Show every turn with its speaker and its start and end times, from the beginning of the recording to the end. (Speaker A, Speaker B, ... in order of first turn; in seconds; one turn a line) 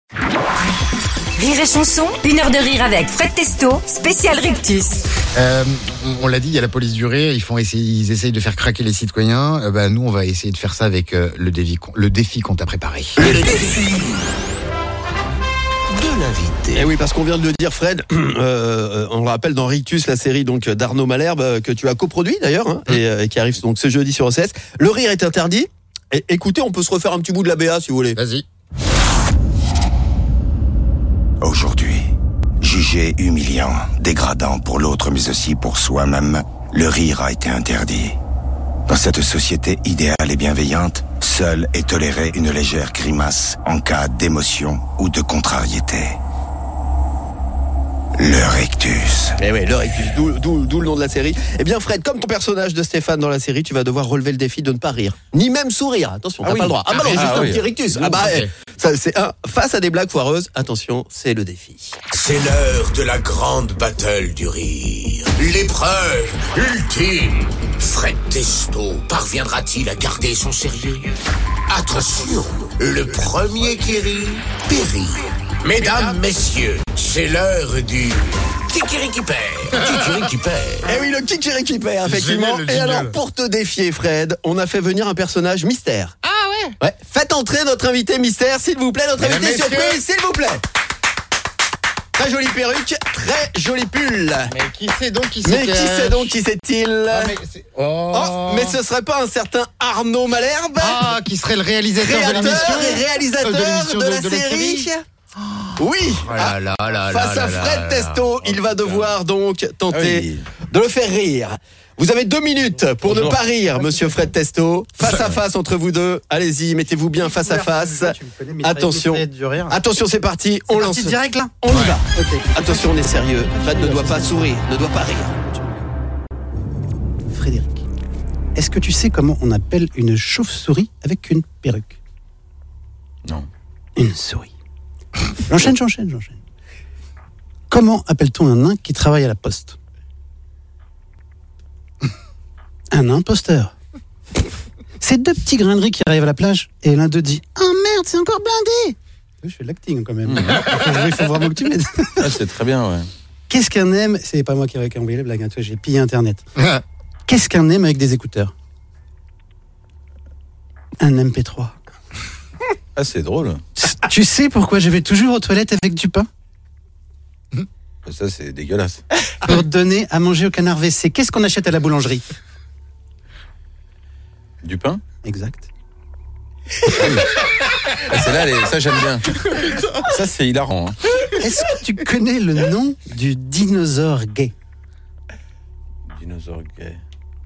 Speaker A: 1.4-5.0
Speaker B: 5.3-13.2
Speaker C: 13.2-14.1
Speaker C: 15.9-16.9
Speaker D: 16.7-28.2
Speaker B: 28.1-28.4
Speaker E: 31.4-38.2
Speaker E: 38.9-46.2
Speaker E: 48.2-49.4
Speaker D: 49.4-62.0
Speaker F: 56.4-58.2
Speaker C: 56.9-57.3
Speaker B: 58.1-58.5
Speaker C: 62.1-71.0
Speaker C: 71.7-81.0
Speaker B: 79.7-80.2
Speaker D: 80.8-86.2
Speaker B: 82.0-83.1
Speaker B: 86.2-86.8
Speaker D: 86.8-90.6
Speaker B: 89.2-90.0
Speaker D: 92.1-94.5
Speaker B: 94.4-96.3
Speaker D: 95.4-97.3
Speaker B: 97.1-98.8
Speaker D: 98.1-101.1
Speaker B: 100.7-108.3
Speaker D: 102.0-105.0
Speaker D: 105.8-125.3
Speaker F: 109.9-110.5
Speaker F: 113.0-113.4
Speaker G: 113.8-114.2
Speaker G: 117.2-119.8
Speaker G: 120.7-121.5
Speaker B: 121.7-121.9
Speaker G: 122.1-125.9
Speaker G: 127.3-127.8
Speaker G: 128.5-132.0
Speaker G: 133.9-134.5
Speaker G: 135.4-136.4
Speaker G: 137.7-139.8
Speaker G: 142.9-143.7
Speaker G: 145.0-152.3
Speaker F: 150.2-150.6
Speaker F: 152.2-153.1
Speaker G: 153.5-156.4
Speaker B: 156.6-156.8
Speaker G: 157.3-158.5
Speaker G: 161.0-161.8
Speaker F: 162.9-163.6
Speaker G: 163.8-166.3
Speaker F: 168.0-169.0
Speaker G: 169.4-172.3
Speaker F: 174.6-175.0
Speaker G: 175.2-175.7
Speaker F: 176.8-179.5
Speaker F: 180.0-181.1
Speaker G: 181.4-184.5
Speaker F: 186.1-187.0